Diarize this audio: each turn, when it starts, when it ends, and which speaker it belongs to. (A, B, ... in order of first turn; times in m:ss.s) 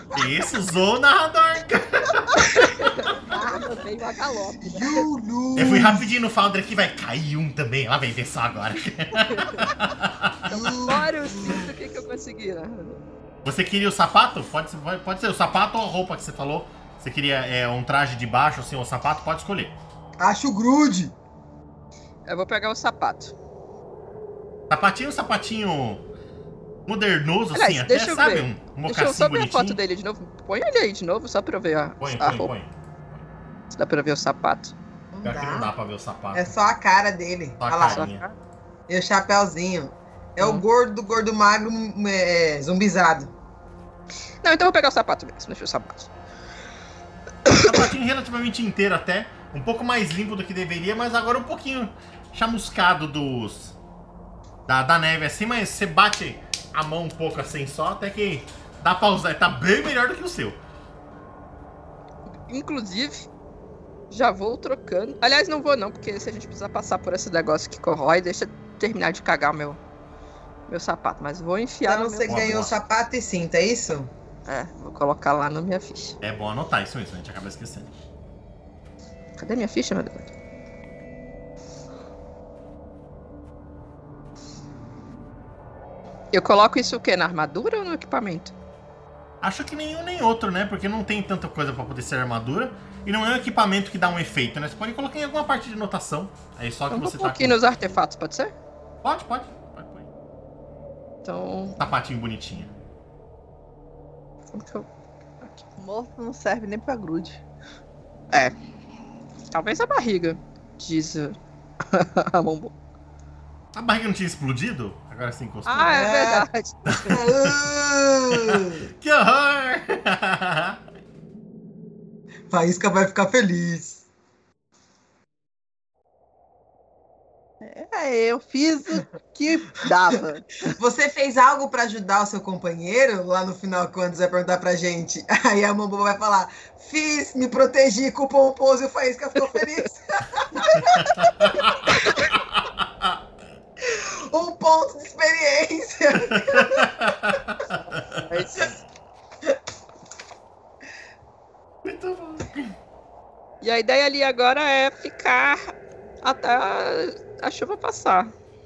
0:00.1-0:02.5 A
0:02.4-0:05.1 B
0:03.3-0:03.6 C
0:04.6-0:06.0 C
0:05.6-0:10.5 A
0:09.3-0:09.7 B
0:10.5-0:13.0 B
0:10.5-0:11.7 C
0:13.4-0:19.8 A
0:20.2-0:21.1 C
0:22.3-0:23.3 B
0:24.7-0:26.0 A
0:26.9-0:29.8 A
0:27.5-0:32.5 B
0:32.0-0:33.2 A
0:33.7-0:34.7 B
0:35.1-0:35.7 C
0:35.2-0:36.5 A
0:36.3-0:38.1 C
0:37.6-0:38.2 A
0:37.9-0:38.4 B
0:38.9-0:43.3 C
0:40.4-0:40.6 B
0:44.4-0:46.1 B
0:47.5-0:47.8 B
0:47.6-0:53.8 A
0:54.7-1:00.6 A
1:02.5-1:03.3 B
1:04.1-1:09.8 B
1:10.7-1:12.6 B
1:11.8-1:14.1 C
1:12.3-1:12.8 A
1:14.5-1:16.2 B
1:16.2-1:18.0 A
1:19.4-1:20.3 B
1:26.3-1:28.5 B
1:29.4-1:37.6 A
1:36.9-1:38.5 B
1:39.0-1:40.1 A
1:41.2-1:41.8 B
1:41.8-1:42.7 A
1:44.5-1:44.9 B
1:45.4-1:45.7 B
1:45.8-1:47.4 D
1:49.5-1:52.7 B
1:53.7-1:56.0 A
1:55.7-1:57.2 B
1:55.9-1:56.5 C
1:56.9-1:57.6 A
1:57.1-1:58.8 C
1:58.4-2:00.8 A
2:02.5-2:04.0 C
2:07.6-2:10.7 D
2:10.7-2:22.2 C
2:20.7-2:23.2 A
2:23.8-2:27.1 C
2:26.3-2:28.7 A
2:27.7-2:28.7 B
2:31.8-2:32.8 A
2:33.6-2:38.3 B